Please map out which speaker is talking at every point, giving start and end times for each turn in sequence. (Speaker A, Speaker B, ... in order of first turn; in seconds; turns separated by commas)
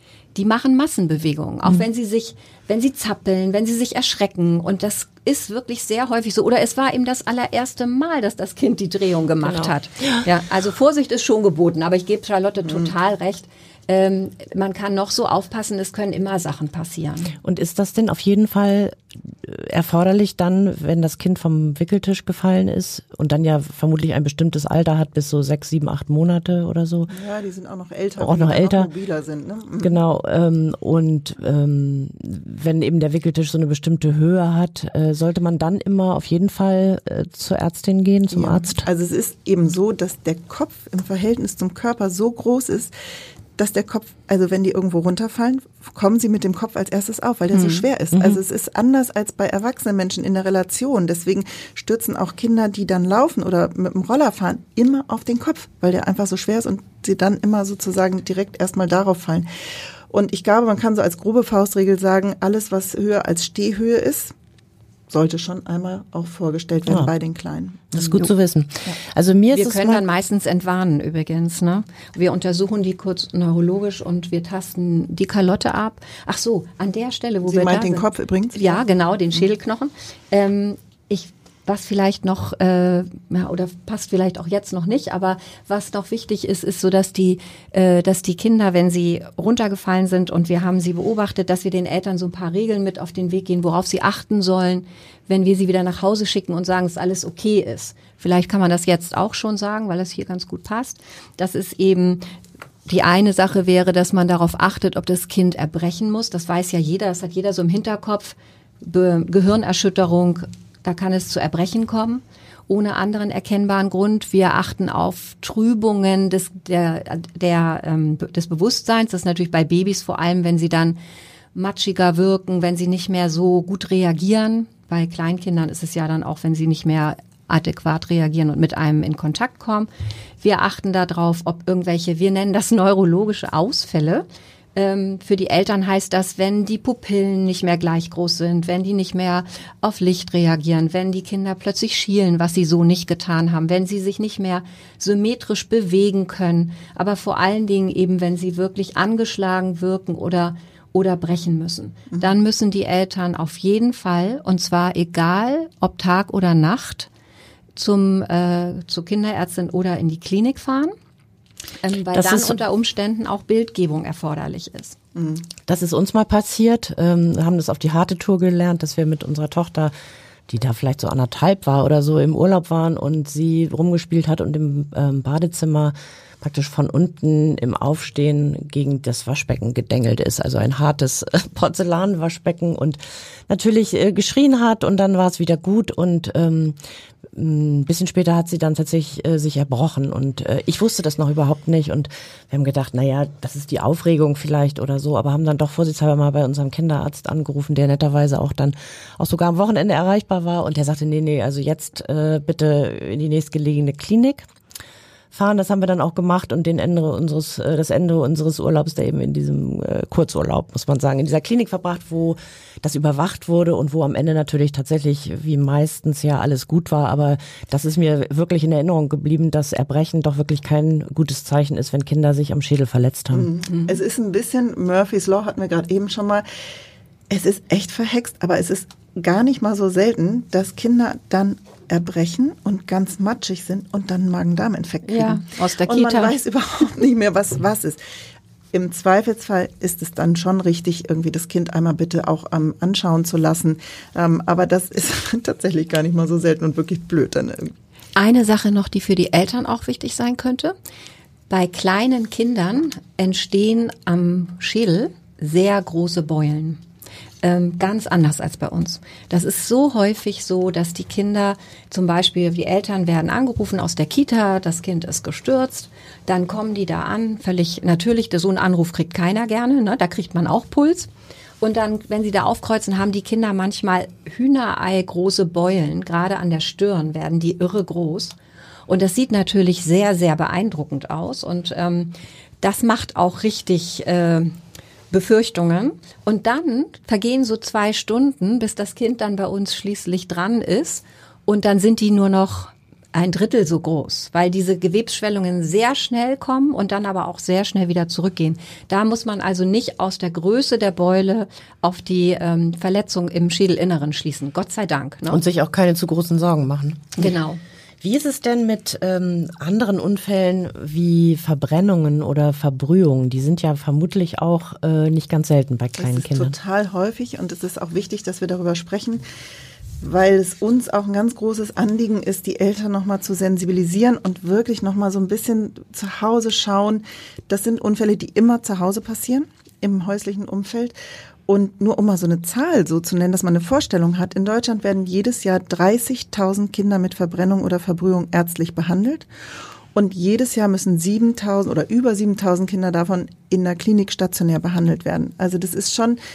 Speaker A: 0.3-17.3, Speaker B: 9.4-10.3, Speaker B: 17.4-27.1, Speaker C: 27.1-30.0, Speaker B: 28.2-28.9, Speaker B: 29.8-38.9, Speaker C: 38.3-42.9, Speaker C: 43.6-59.5, Speaker A: 47.5-47.9, Speaker B: 48.1-48.4, Speaker C: 60.1-64.3, Speaker C: 65.1-68.3, Speaker B: 67.9-70.0, Speaker A: 69.5-102.2, Speaker C: 77.5-78.8, Speaker A: 102.9-121.0, Speaker A: 121.5-129.9, Speaker A: 130.4-157.1, Speaker A: 157.8-160.9, Speaker A: 161.8-165.0, Speaker B: 162.1-162.6, Speaker C: 165.2-165.5, Speaker B: 165.7-169.9, Speaker B: 170.5-186.8, Speaker B: 187.3-204.5, Speaker B: 205.3-223.5, Speaker C: 223.3-226.4, Speaker C: 227.3-238.0, Speaker A: 235.0-236.3, Speaker C: 238.7-247.7, Speaker A: 248.2-250.7, Speaker A: 251.5-256.8, Speaker A: 257.4-271.1, Speaker A: 271.6-278.4, Speaker A: 278.9-284.6, Speaker A: 285.1-305.4, Speaker B: 305.3-307.3, Speaker A: 307.2-307.6, Speaker B: 308.0-316.5, Speaker C: 316.0-319.2, Speaker C: 320.0-330.9, Speaker C: 331.5-339.3, Speaker C: 339.9-346.2